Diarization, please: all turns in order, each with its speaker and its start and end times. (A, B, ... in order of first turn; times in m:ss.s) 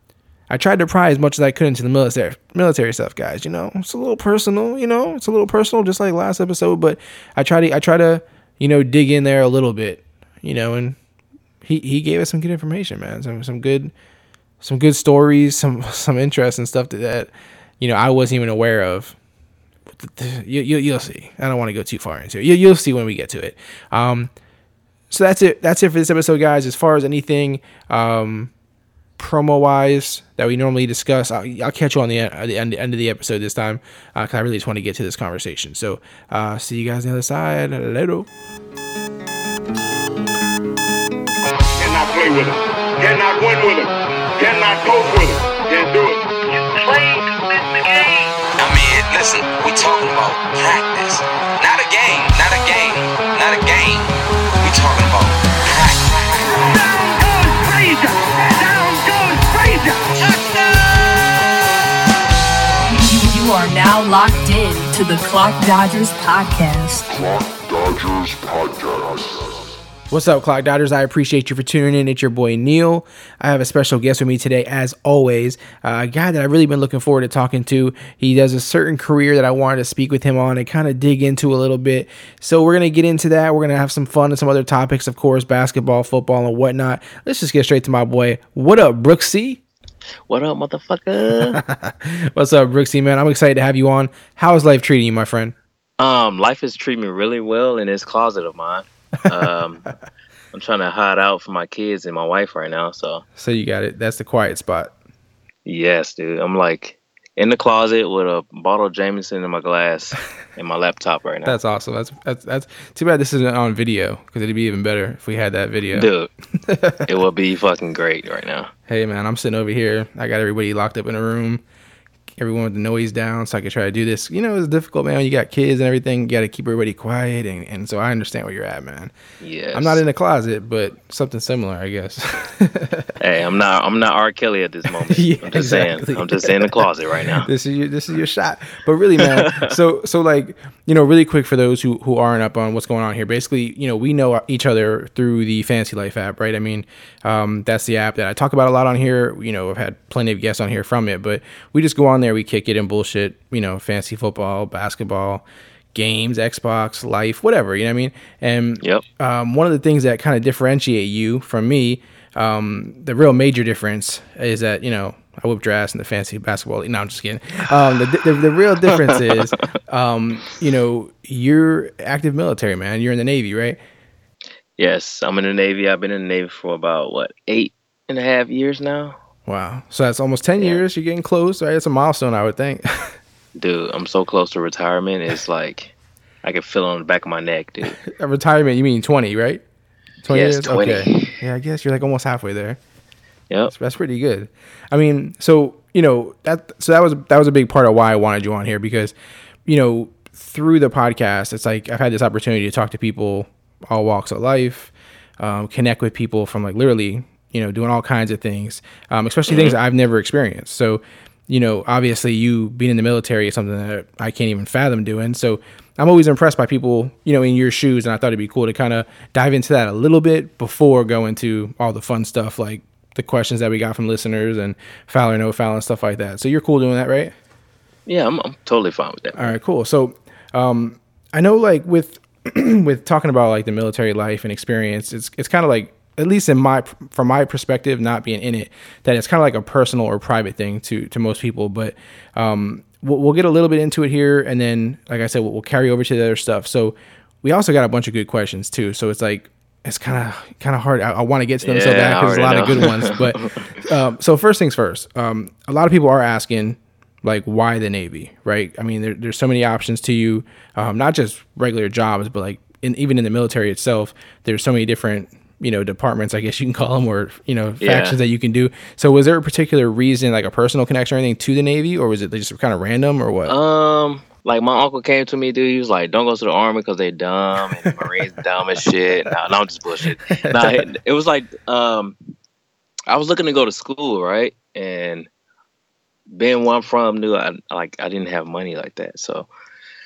0:00.5-0:11.0 A
0:11.6-0:13.9 A
0:14.6-0:19.1 A
0:20.0-0:24.3 A
0:25.1-0:28.5 A
0:29.2-0:38.3 A
0:41.8-0:46.3 B
0:46.5-0:48.3 C
0:48.6-0:56.4 D
0:56.6-1:01.0 C
1:02.9-1:07.1 E
1:07.1-1:09.8 B
1:10.1-1:29.6 A
1:30.3-1:31.6 F
1:31.5-1:35.5 A
1:36.0-1:39.9 F
1:40.5-1:43.2 F
1:43.4-1:44.9 A
1:45.6-1:51.6 F
1:51.4-1:56.1 A
1:55.9-1:56.3 F
1:56.6-1:57.1 A
1:57.0-1:58.7 F
1:58.9-2:01.6 A
2:02.4-2:09.1 A
2:09.4-2:10.0 F
2:09.7-2:13.1 A
2:13.2-2:17.5 F
2:15.0-2:16.8 A
2:17.3-2:53.8 A
2:19.2-2:19.7 F
2:48.8-2:49.5 F
2:54.8-2:59.2 F
2:59.4-3:03.1 A
3:03.5-3:08.0 F
3:08.0-3:09.6 A
3:10.2-3:12.8 A
3:10.3-3:11.4 F
3:13.7-3:19.1 A
3:19.6-3:47.3 A
3:29.5-3:29.8 F
3:48.1-3:49.5 F
3:49.4-4:33.6 A
4:11.6-4:13.7 F
4:27.8-4:28.2 F
4:33.5-4:42.2 F
4:40.4-4:40.8 A
4:43.1-4:45.3 F
4:46.3-4:49.5 F